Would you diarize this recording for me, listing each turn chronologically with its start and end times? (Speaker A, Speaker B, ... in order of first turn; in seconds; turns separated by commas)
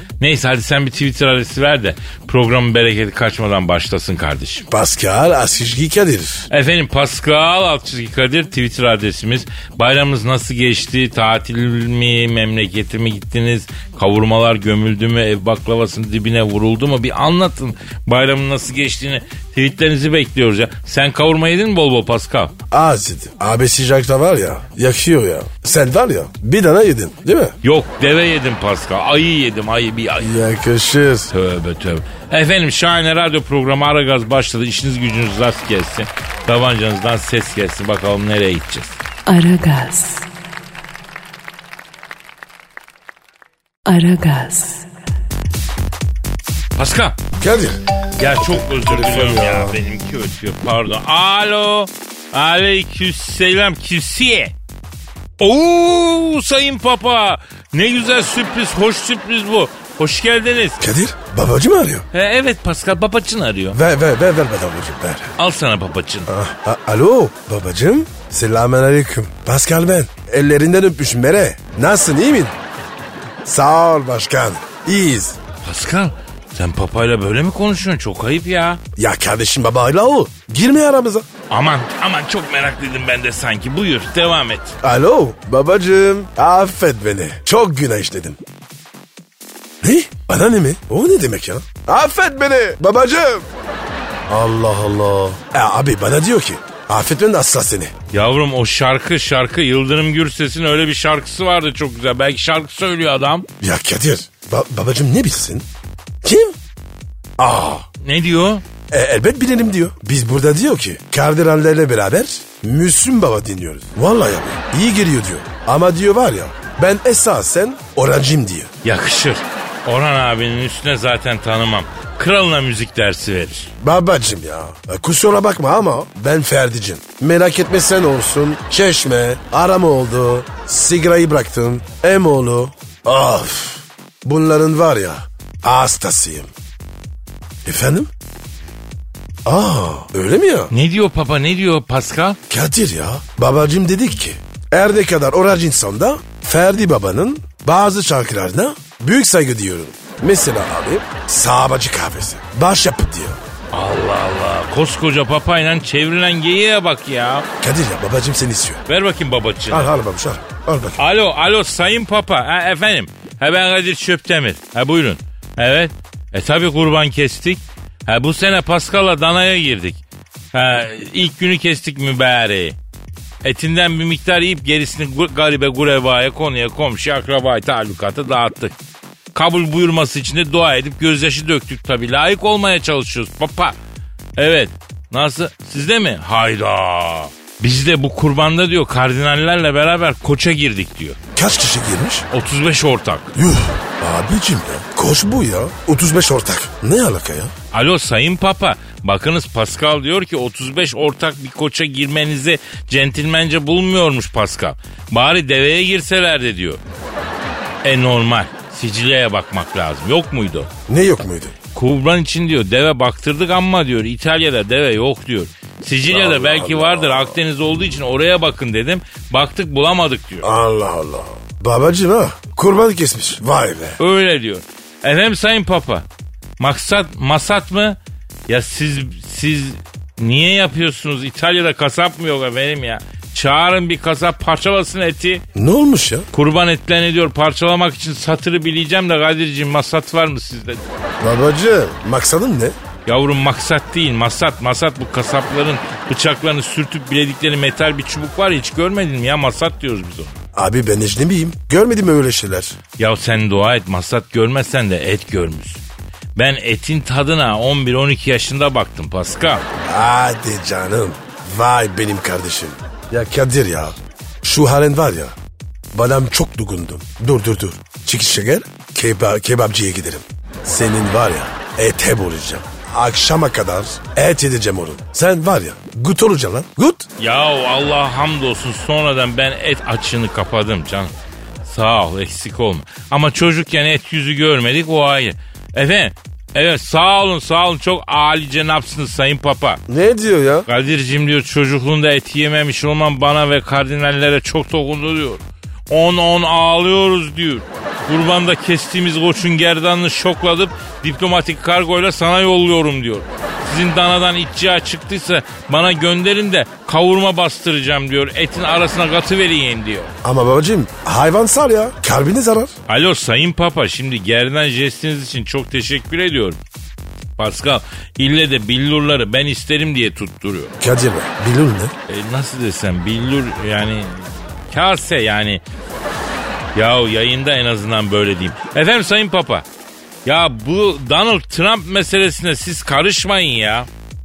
Speaker A: 0.2-4.7, Speaker B: 4.7-6.5, Speaker A: 6.5-22.5, Speaker B: 22.7-27.5, Speaker A: 27.6-30.3, Speaker B: 30.2-31.3, Speaker A: 31.3-39.0, Speaker C: 39.2-40.3, Speaker C: 43.9-44.9, Speaker A: 46.8-47.2, Speaker B: 47.4-47.8, Speaker A: 48.2-54.5, Speaker B: 48.4-49.7, Speaker A: 55.4-60.8, Speaker B: 60.8-62.1, Speaker A: 62.1-63.8, Speaker B: 63.7-65.3, Speaker A: 65.4-66.3, Speaker B: 66.3-72.5, Speaker B: 73.4-75.4, Speaker A: 75.6-78.8, Speaker B: 79.0-81.3, Speaker A: 81.5-84.8, Speaker B: 84.8-88.4, Speaker B: 89.8-93.5, Speaker B: 94.3-97.9, Speaker A: 98.1-103.5, Speaker B: 103.6-105.7, Speaker B: 106.2-106.6, Speaker B: 107.4-107.9, Speaker A: 108.0-108.6, Speaker B: 108.9-118.7, Speaker A: 118.8-123.7, Speaker B: 123.8-136.5, Speaker B: 137.6-138.1, Speaker B: 139.4-140.7, Speaker A: 140.7-142.4, Speaker B: 142.5-153.4, Speaker A: 153.7-157.5, Speaker B: 157.6-158.8, Speaker A: 158.9-159.9, Speaker B: 159.7-161.0, Speaker A: 161.0-170.0, Speaker A: 170.5-172.8, Speaker A: 173.4-178.8, Speaker A: 179.3-183.8, Speaker A: 184.4-191.2, Speaker B: 191.3-192.3, Speaker A: 192.3-193.3, Speaker B: 193.3-197.5, Speaker A: 197.7-206.8, Speaker A: 207.8-210.7, Speaker B: 210.9-211.6, Speaker A: 211.7-220.5, Speaker B: 216.1-217.3, Speaker B: 220.4-224.0, Speaker A: 224.0-226.1, Speaker A: 226.6-235.4, Speaker B: 235.5-236.3, Speaker A: 236.3-240.8, Speaker B: 241.2-242.8, Speaker A: 243.1-250.4, Speaker B: 250.5-252.8, Speaker A: 253.0-255.8, Speaker A: 256.3-259.7, Speaker B: 259.8-265.3, Speaker B: 265.9-277.1, Speaker A: 277.2-281.1, Speaker A: 281.6-289.8, Speaker B: 289.9-290.7, Speaker A: 290.7-310.1, Speaker B: 310.2-312.7, Speaker A: 312.9-316.6, Speaker A: 317.4-320.7, Speaker B: 320.8-321.9, Speaker A: 322.1-325.6, Speaker A: 326.7-329.6, Speaker A: 330.2-333.9